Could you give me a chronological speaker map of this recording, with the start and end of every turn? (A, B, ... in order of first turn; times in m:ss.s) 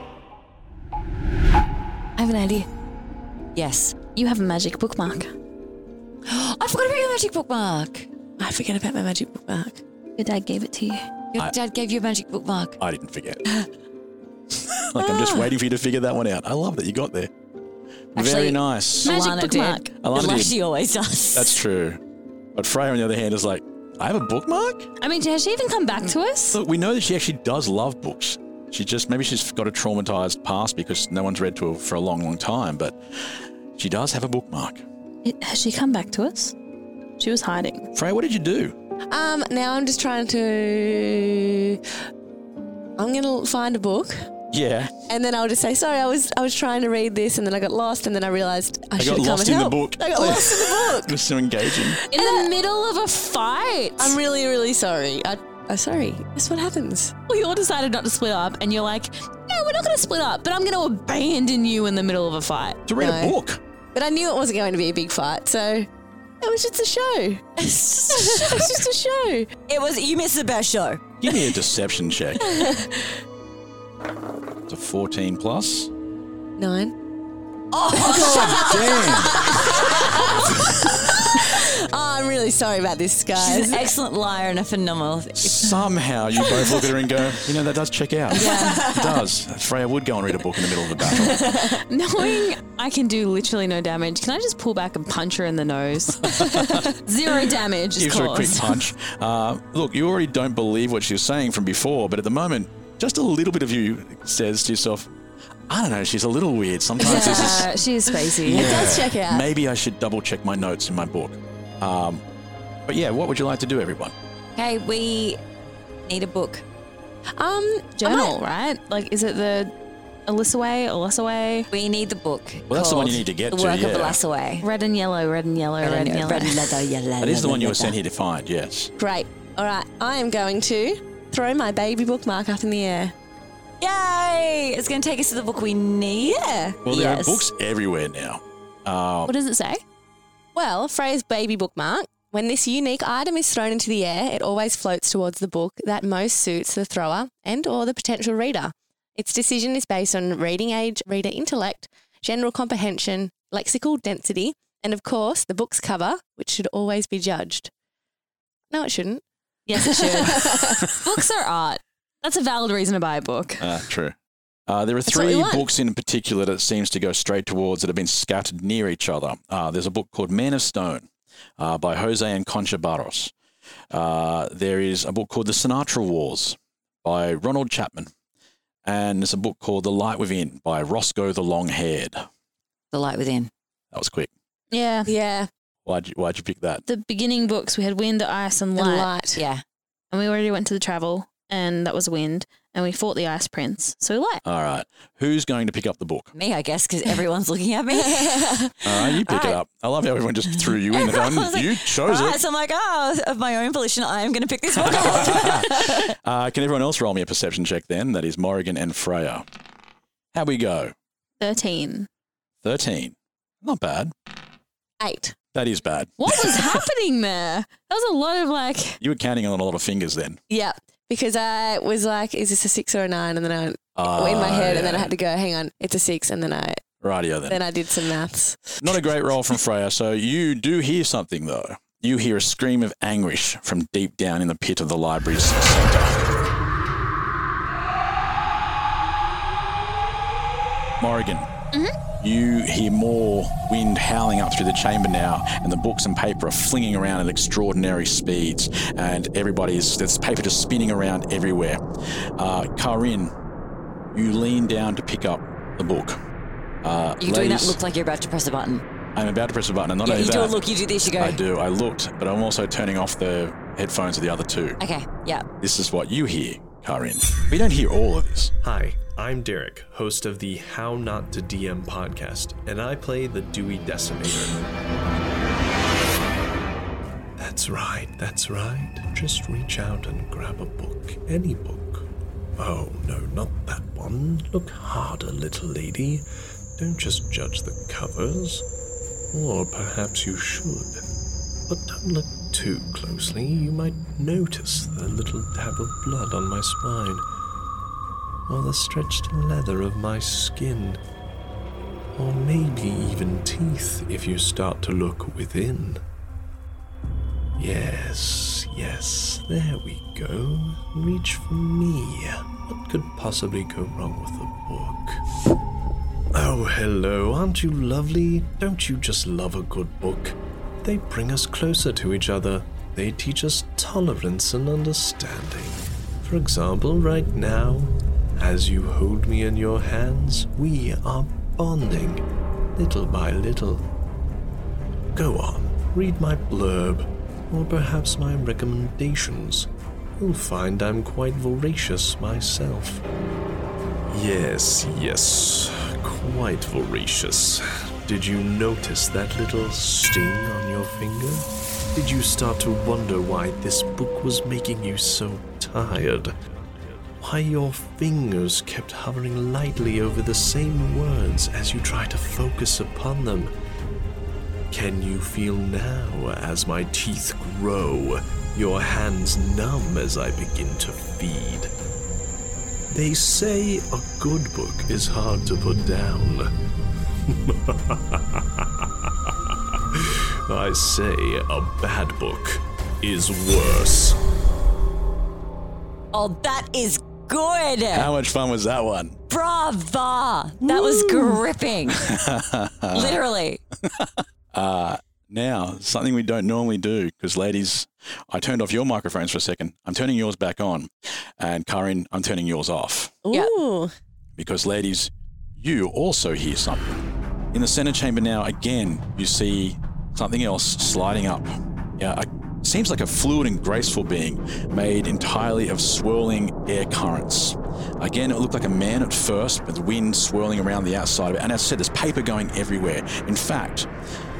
0:02.2-0:02.7 A
0:03.5-0:03.9 B
0:04.1-0:05.3 C
0:06.2-0:08.1 B
0:08.4-0:09.8 A
0:10.2-0:11.1 C
0:11.3-0:12.8 B
0:12.8-0:13.4 D
0:14.7-0:17.3 D
0:18.1-0:19.2 D
0:18.2-0:21.6 B
0:19.0-0:19.9 C
0:20.0-0:20.6 D
0:21.3-0:22.0 D
0:22.5-0:24.9 D
0:25.0-0:26.6 C
0:26.5-0:34.8 D
0:35.2-0:36.5 C
0:37.2-0:37.9 C
0:37.9-0:38.7 D
0:39.1-0:41.8 A
0:43.0-0:44.2 A
0:44.5-0:44.9 D
0:45.1-0:51.1 A
0:49.0-0:52.0 D
0:51.7-0:52.5 A
0:52.1-0:54.2 C
0:54.0-0:57.1 A
0:57.3-1:02.8 C
1:02.9-1:03.6 D
1:03.0-1:03.3 A
1:03.9-1:05.9 A
1:06.4-1:09.5 A
1:09.7-1:11.0 B
1:11.2-1:12.4 D
1:12.4-1:13.2 A
1:14.7-1:15.9 D
1:16.6-1:16.9 A
1:17.7-1:19.7 B
1:18.0-1:19.4 D
1:18.0-1:23.9 A
1:23.4-1:25.7 B
1:25.4-1:31.6 D
1:28.3-1:29.0 B
1:28.3-1:28.9 C
1:31.0-1:31.8 A
1:31.9-1:38.8 C
1:36.3-1:36.8 D
1:38.0-1:45.1 D
1:45.7-1:47.7 D
1:47.0-1:47.7 A
1:47.0-1:48.8 C
1:48.3-1:49.4 A
1:48.4-1:52.2 D
1:52.9-1:54.1 D
1:54.6-1:55.4 B
1:56.0-1:56.6 B
1:57.4-1:58.3 A
1:58.0-1:59.7 C
2:00.3-2:01.7 C
2:01.7-2:04.6 B
2:02.7-2:04.2 D
2:04.6-2:06.8 C
2:05.8-2:08.0 B
2:07.2-2:08.9 D
2:09.0-2:13.1 A
2:13.8-2:17.4 B
2:16.2-2:16.8 A
2:16.8-2:19.3 D
2:19.2-2:19.8 C
2:20.5-2:37.7 A
2:38.7-2:39.2 A
2:39.7-2:43.7 C
2:39.7-2:40.9 A
2:43.6-2:44.1 D
2:44.7-2:51.1 D
2:45.1-2:45.7 A
2:51.6-2:53.3 D
2:53.9-2:58.1 D
2:58.8-3:02.2 D
3:02.9-3:03.5 B
3:03.9-3:04.3 D
3:04.7-3:05.1 C
3:05.1-3:05.5 A
3:05.8-3:06.8 D
3:06.8-3:09.1 C
3:08.7-3:09.4 A
3:09.3-3:09.6 B
3:10.1-3:14.4 C
3:14.4-3:16.3 D
3:16.3-3:19.6 B
3:18.1-3:18.6 A
3:18.8-3:22.4 D
3:20.6-3:26.1 B
3:24.8-3:29.4 D
3:30.3-3:30.9 D
3:31.4-3:32.1 C
3:32.6-3:34.1 D
3:35.0-3:35.3 A
3:35.5-3:36.8 D
3:36.2-3:39.0 C
3:39.0-3:40.4 D
3:40.5-3:46.8 A
3:44.0-3:45.1 D
3:47.0-3:47.6 D
3:47.5-3:49.1 A
3:48.8-3:56.2 D
4:01.0-4:01.5 D
4:02.2-4:11.8 D
4:12.4-4:13.3 D
4:14.1-4:16.2 D
4:16.8-4:17.8 D
4:17.2-4:18.8 B
4:19.1-4:20.6 D
4:20.0-4:21.4 B
4:21.2-4:24.8 D
4:24.8-4:25.4 B
4:25.6-4:28.5 D
4:28.6-4:34.7 E
4:37.4-4:48.6 E
4:49.3-4:51.0 E
4:51.7-4:57.2 E
4:58.5-5:01.0 E
5:02.1-5:06.0 E
5:07.6-5:15.2 E
5:16.3-5:32.2 E
5:32.8-5:33.8 E
5:35.1-5:43.0 E
5:44.1-5:56.3 E
5:57.2-6:03.5 E
6:04.7-6:11.7 E
6:12.9-6:16.5 E
6:17.3-6:19.3 E
6:19.9-6:24.2 E
6:26.1-6:28.1 B
6:27.9-6:29.2 D
6:29.3-6:32.0 B
6:31.9-6:33.2 D
6:32.9-6:33.6 B
6:33.9-6:43.2 D
6:43.2-6:43.9 A
6:44.4-7:03.9 D